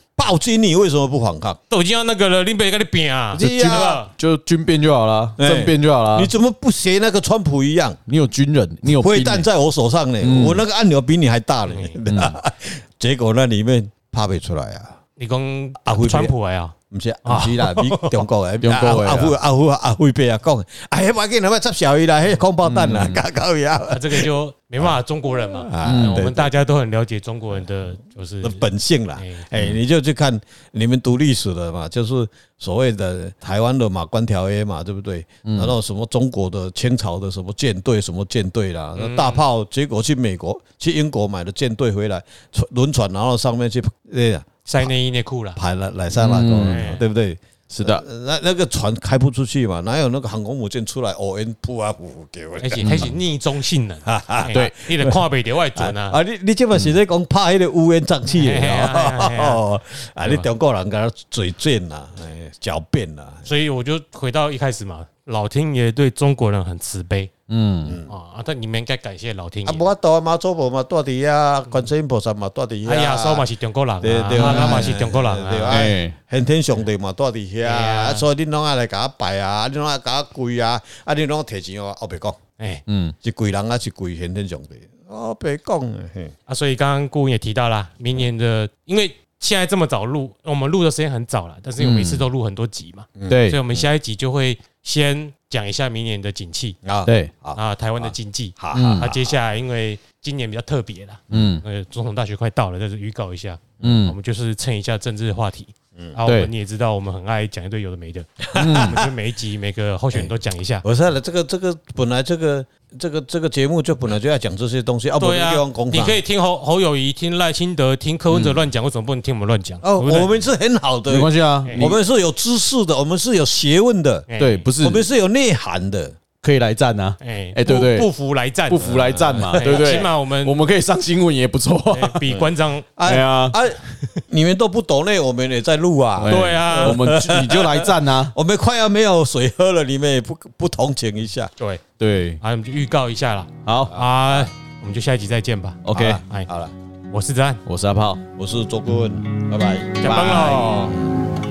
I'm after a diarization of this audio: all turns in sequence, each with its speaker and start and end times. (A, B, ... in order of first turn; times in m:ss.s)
0:00.1-0:01.6 A
0:01.7-0:04.1 B
0:03.3-0:04.0 A
0:03.4-0:06.3 C
0:05.4-0:08.0 A
0:08.1-0:09.5 C
0:08.8-0:15.0 A
0:10.2-0:10.6 C
0:11.7-0:12.0 B
0:12.0-0:12.4 C
0:15.2-0:16.7 B
0:15.8-0:16.3 A
0:16.9-0:24.3 A
0:17.2-0:18.2 B
0:18.6-0:19.4 C
0:22.6-0:23.2 C
0:23.9-0:28.6 B
0:25.5-0:26.5 A
0:25.8-0:26.2 C
0:28.4-0:44.5 A
0:29.2-0:29.5 B
0:35.4-0:35.7 C
0:39.0-0:39.4 B
0:44.6-0:45.6 B
0:45.6-0:53.2 A
0:46.2-0:46.8 C
0:46.6-0:47.0 B
0:47.7-0:48.0 C
0:52.6-0:56.2 B
0:52.8-0:53.1 C
0:54.0-0:55.2 A
0:55.7-1:03.5 A
0:58.3-0:59.6 B
1:03.4-1:07.3 B
1:07.5-1:08.0 C
1:07.8-1:08.1 A
1:08.1-1:09.9 B
1:09.6-1:13.4 A
1:12.8-1:15.8 B
1:14.0-1:22.4 A
1:14.3-1:15.0 C
1:15.7-1:16.2 C
1:17.6-1:18.2 B
1:22.9-1:23.2 C
1:23.2-1:26.3 A
1:26.5-1:36.8 B
1:31.8-1:32.2 C
1:33.2-1:33.8 A
1:33.3-1:33.6 C
1:36.8-1:39.3 A
1:37.0-1:37.3 C
1:37.6-1:50.8 B
1:38.7-1:39.1 C
1:41.3-1:41.6 C
1:43.8-1:44.2 C
1:46.2-1:46.5 C
1:48.4-1:49.1 A
1:48.6-1:49.0 C
1:50.8-1:56.2 A
1:55.2-2:00.3 B
1:58.3-1:58.7 C
1:59.8-2:04.3 A
2:01.1-2:02.0 C
2:04.3-2:04.6 B
2:04.4-2:05.0 C
2:04.8-2:06.2 A
2:06.4-2:08.1 C
2:07.2-2:10.5 B
2:08.7-2:12.2 C
2:08.8-2:10.0 A
2:11.9-2:12.9 B
2:12.3-2:21.5 A
2:13.0-2:13.6 C
2:16.2-2:18.3 C
2:16.3-2:17.0 B
2:22.0-2:22.4 C
2:22.4-2:26.5 B
2:23.6-2:24.0 C
2:23.9-2:24.5 A
2:25.8-2:26.2 C
2:25.9-2:26.7 A
2:27.1-2:27.6 B
2:27.6-2:28.2 C
2:28.4-2:31.2 A
2:30.0-2:31.0 B
2:30.1-2:30.6 C